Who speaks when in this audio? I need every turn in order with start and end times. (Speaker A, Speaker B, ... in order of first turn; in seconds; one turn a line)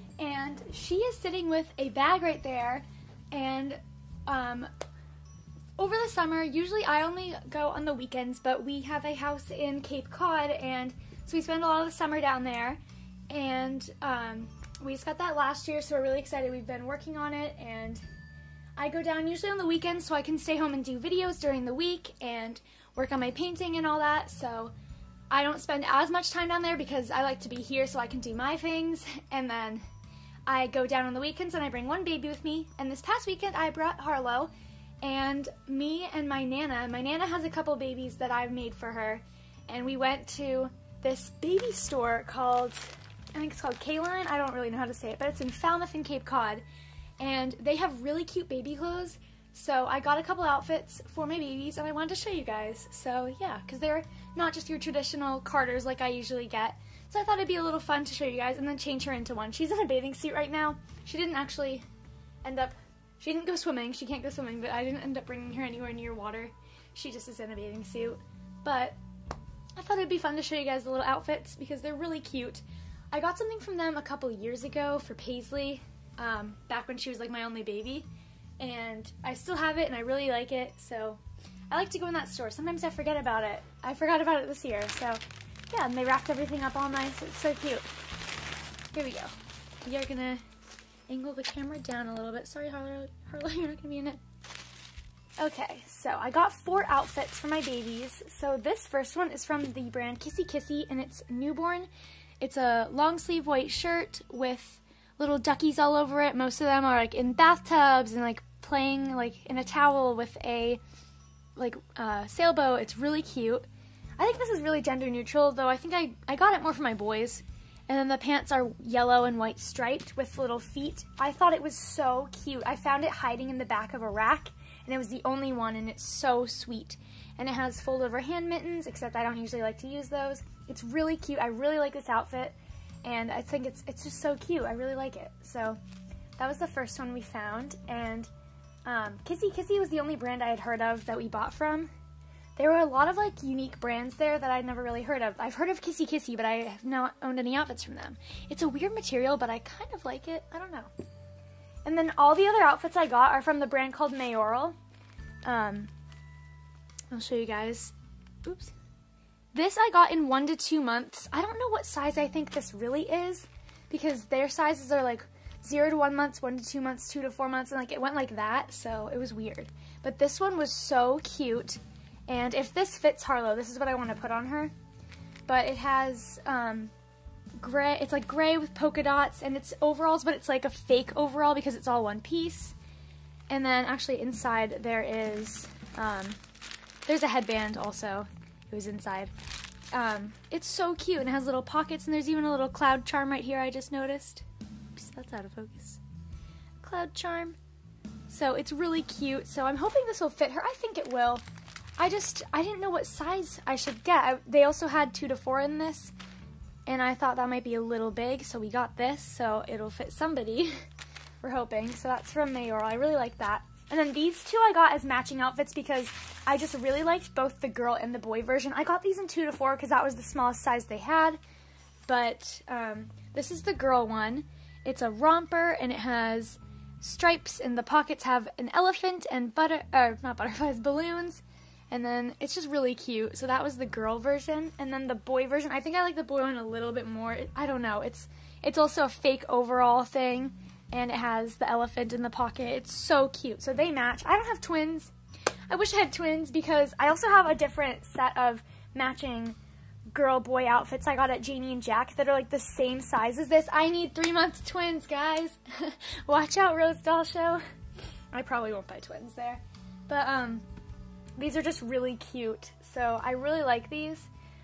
Speaker A: 0.2-4.7
Speaker A: 5.8-18.0
Speaker A: 18.8-24.7
Speaker A: 25.3-29.8
Speaker A: 30.5-34.5
Speaker A: 35.0-46.6
Speaker A: 47.2-61.8
Speaker A: 62.4-69.0
Speaker A: 69.8-78.1
Speaker A: 78.6-87.9
Speaker A: 88.9-90.4
Speaker A: 91.1-94.2
Speaker A: 95.4-101.9
Speaker A: 102.4-110.8
Speaker A: 111.5-113.7
Speaker A: 114.2-135.8
Speaker A: 136.4-138.3
Speaker A: 138.8-141.9
Speaker A: 142.6-150.9
Speaker A: 151.8-154.8
Speaker A: 155.4-155.9
Speaker A: 157.1-158.7
Speaker A: 159.5-174.7
Speaker A: 175.5-176.9
Speaker A: 177.6-182.8
Speaker A: 183.5-186.4
Speaker A: 187.1-189.3
Speaker A: 189.9-196.0
Speaker A: 196.8-197.6
Speaker A: 198.3-201.4
Speaker A: 202.0-206.1
Speaker A: 206.9-210.8
Speaker A: 211.4-221.4
Speaker A: 222.1-245.1
Speaker A: 245.7-249.6
Speaker A: 250.1-257.6
Speaker A: 258.3-260.6
Speaker A: 261.4-264.3